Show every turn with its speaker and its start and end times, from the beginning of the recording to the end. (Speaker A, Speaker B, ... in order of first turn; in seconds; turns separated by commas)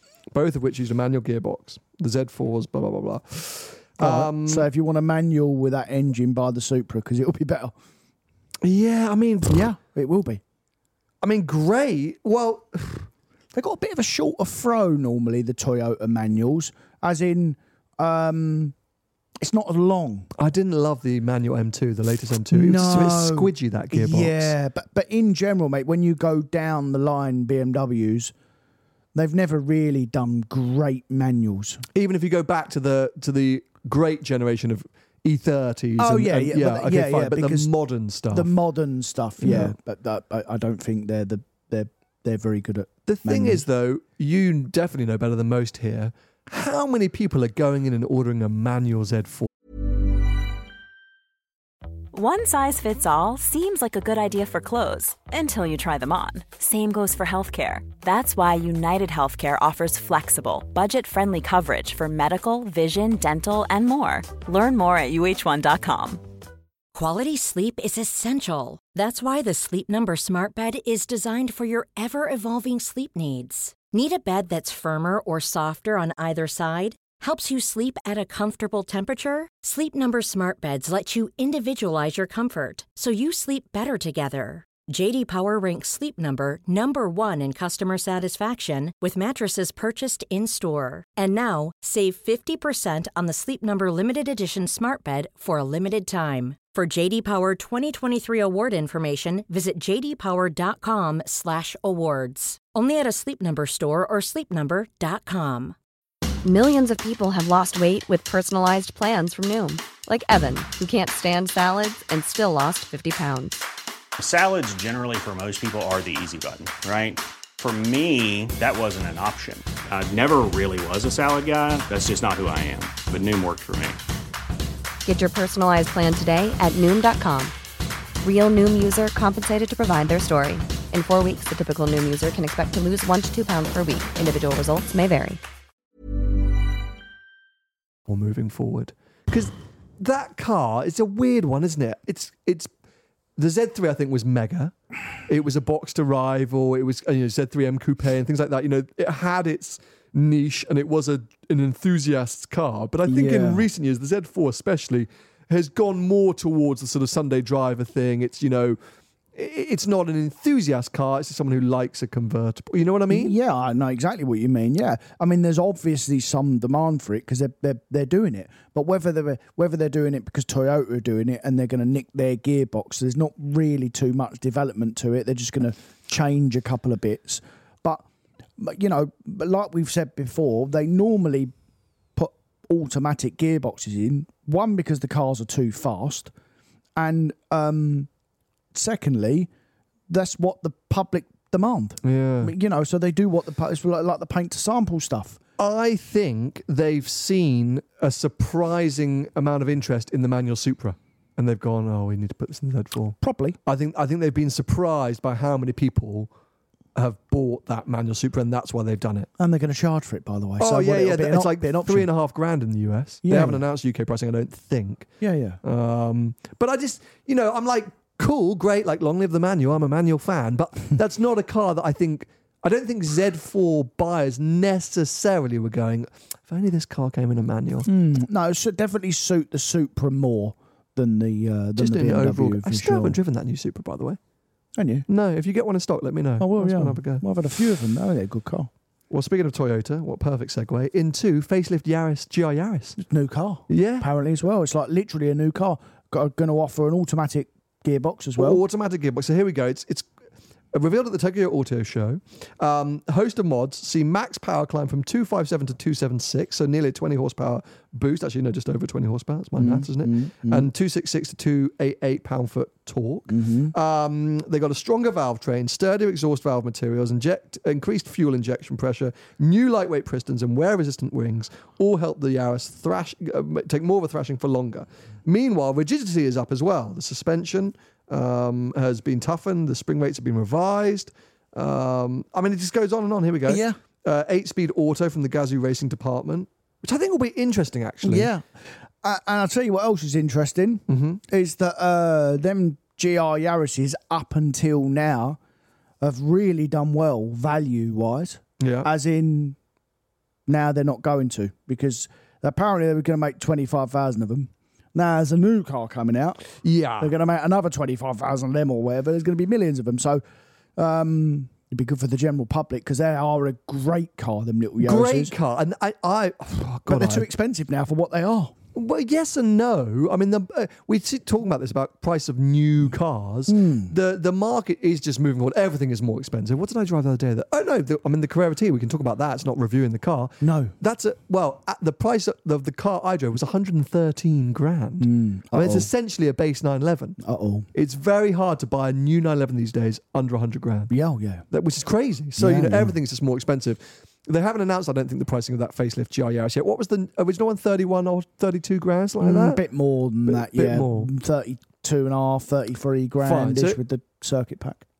Speaker A: 0.3-4.7, Speaker B: 4.0-7.8, Speaker A: 8.6-9.7, Speaker B: 9.5-10.4, Speaker A: 11.2-13.1, Speaker B: 13.5-18.8, Speaker B: 19.4-20.3, Speaker A: 20.4-24.5, Speaker B: 22.5-28.3, Speaker B: 29.1-31.8, Speaker A: 31.9-38.5, Speaker B: 36.0-37.7, Speaker B: 38.3-43.6, Speaker A: 39.4-39.8, Speaker A: 43.1-49.5, Speaker C: 52.1-66.2, Speaker D: 66.9-105.8, Speaker E: 106.4-113.7, Speaker F: 114.2-124.0, Speaker E: 125.1-127.5, Speaker E: 128.2-135.4, Speaker A: 138.1-142.7, Speaker A: 143.4-144.7, Speaker A: 145.3-158.8, Speaker B: 153.1-153.7, Speaker A: 159.3-163.4, Speaker B: 163.1-178.1, Speaker B: 178.6-181.5, Speaker B: 182.2-186.3, Speaker B: 187.0-188.1, Speaker B: 188.7-189.5, Speaker B: 190.1-195.4, Speaker A: 192.0-192.5, Speaker A: 195.6-206.3, Speaker B: 203.2-203.6, Speaker A: 206.9-209.3, Speaker B: 209.4-212.1, Speaker A: 210.6-215.1, Speaker B: 213.2-213.6, Speaker B: 215.2-215.6, Speaker A: 215.6-227.9, Speaker B: 227.9-233.2, Speaker A: 231.8-234.2, Speaker B: 234.8-235.1, Speaker A: 235.1-237.2, Speaker B: 236.4-238.7, Speaker A: 239.1-243.0, Speaker B: 243.0-248.6, Speaker A: 243.7-244.1, Speaker A: 248.4-250.1, Speaker A: 250.7-288.3, Speaker B: 259.6-260.7, Speaker B: 263.3-263.7, Speaker B: 283.5-283.8, Speaker B: 288.0-288.5, Speaker B: 289.0-295.4, Speaker A: 290.9-291.2, Speaker B: 296.0-299.6, Speaker A: 298.6-298.9, Speaker B: 300.5-306.5, Speaker A: 306.6-307.1, Speaker B: 307.0-310.2, Speaker B: 310.8-315.3, Speaker A: 314.8-317.3, Speaker B: 316.9-318.5, Speaker A: 318.7-337.2, Speaker B: 323.5-323.9, Speaker B: 330.4-330.7, Speaker B: 335.0-335.9, Speaker B: 337.2-337.7, Speaker A: 337.7-340.9, Speaker B: 340.9-341.4, Speaker A: 341.5-349.6, Speaker B: 342.4-342.9, Speaker B: 349.2-354.9, Speaker A: 350.3-351.1, Speaker A: 353.2-353.8